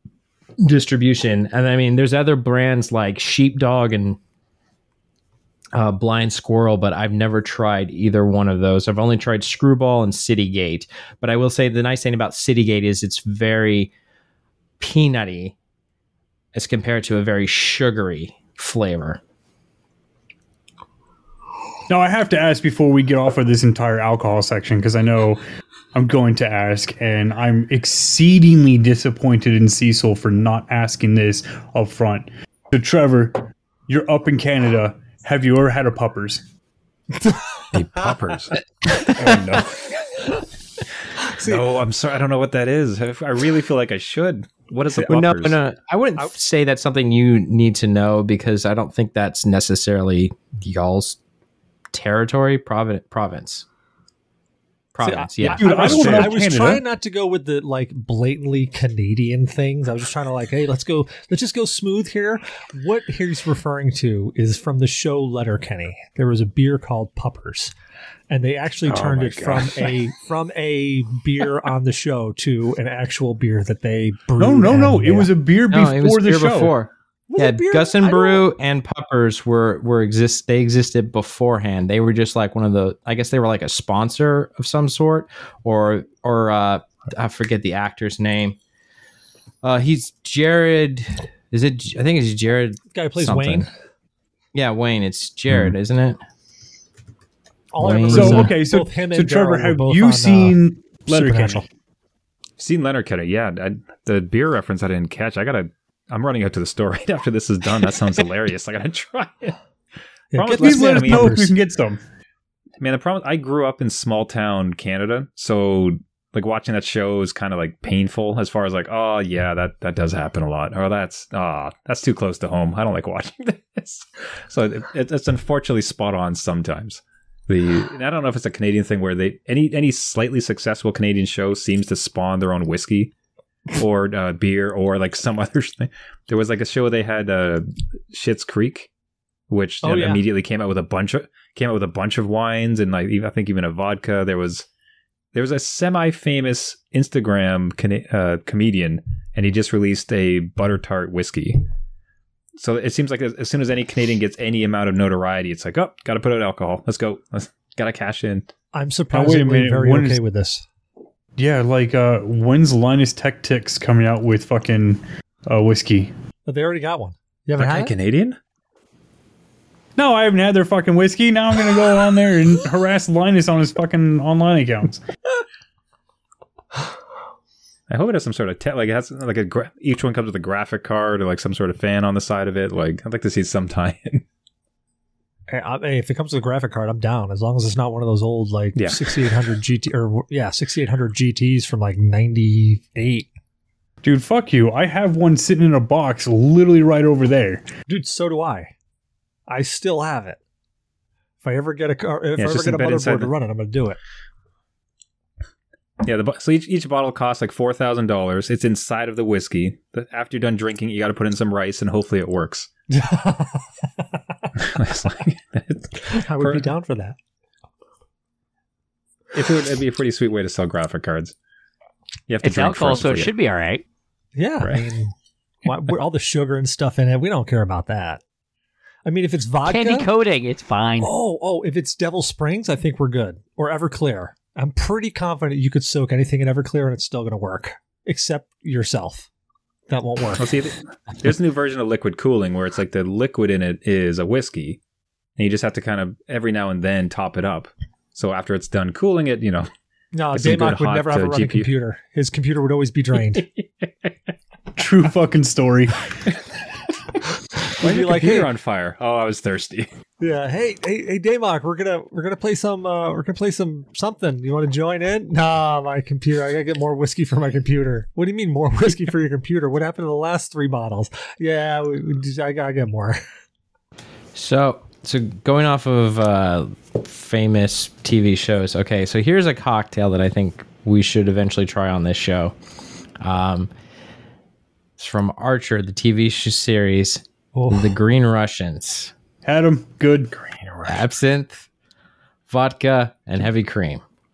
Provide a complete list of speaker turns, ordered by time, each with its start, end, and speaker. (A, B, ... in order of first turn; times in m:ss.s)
0:00.6-0:04.2 A
0:05.7-0:13.9 A
0:14.8-0:15.6 A
0:16.5-0:19.2 A
0:21.9-0:25.4 B
0:25.9-0:36.4 B
0:37.2-0:38.1 C
0:37.7-0:39.7 D
0:38.8-0:39.4 A
0:39.2-0:39.6 B
0:41.2-0:41.7 C
0:41.4-0:45.6 D
0:45.0-0:51.2 A
0:51.9-0:53.6 A
0:54.9-0:56.3 A
0:55.0-1:07.7 C
0:55.4-0:56.8 B
1:08.3-1:15.3 C
1:08.8-1:09.9 D
1:14.4-1:16.7 B
1:15.7-1:28.6 A
1:17.3-1:18.4 C
1:29.6-1:33.6 A
1:32.9-1:33.7 C
1:34.5-1:36.2 A
1:37.7-1:41.7 C
1:37.8-1:38.5 A
1:38.1-1:41.6 B
1:42.6-1:49.6 D
1:50.3-1:51.5 C
1:50.3-1:51.5 D
1:50.6-1:52.0 B
1:52.8-2:13.1 D
2:13.7-2:18.9 D
2:19.5-2:24.6 D
2:19.8-2:20.2 C
2:25.3-2:31.6 D
2:32.6-2:38.5 D
2:38.7-2:40.6 C
2:39.1-2:40.2 B
2:41.4-2:46.1 B
2:46.4-2:47.9 C
2:47.6-2:48.4 D
2:50.0-2:55.0 B
2:57.9-3:04.2 D
3:05.5-3:13.3 C
3:08.7-3:09.4 D
3:14.0-3:17.6 B
3:17.9-3:18.7 C
3:19.5-3:20.4 C
3:21.4-3:24.0 C
3:22.4-3:23.3 D
3:26.0-3:32.7 D
3:32.9-3:34.0 C
3:34.6-3:36.7 D
3:36.1-3:37.2 C
3:39.3-3:41.3 D
3:42.3-3:43.3 D
3:42.4-3:43.8 E
3:44.3-3:45.1 C
3:44.6-3:44.9 D
3:45.6-3:48.2 C
3:49.0-3:50.1 C
3:49.6-3:51.1 E
3:51.0-3:59.3 C
3:59.9-4:00.5 C
4:00.4-4:04.8 D
4:05.4-4:09.7 D
4:10.1-4:13.4 C
4:10.3-4:11.7 D
4:13.4-4:13.6 D
4:14.8-4:16.1 B
4:17.6-4:19.9 D
4:17.8-4:18.5 C
4:20.2-4:33.2 C
4:34.3-4:42.5 A
4:43.2-4:43.7 A
4:45.0-4:49.1 A
4:47.5-4:48.0 C
4:49.4-4:50.9 B
4:50.8-4:51.7 A
4:52.5-4:54.0 A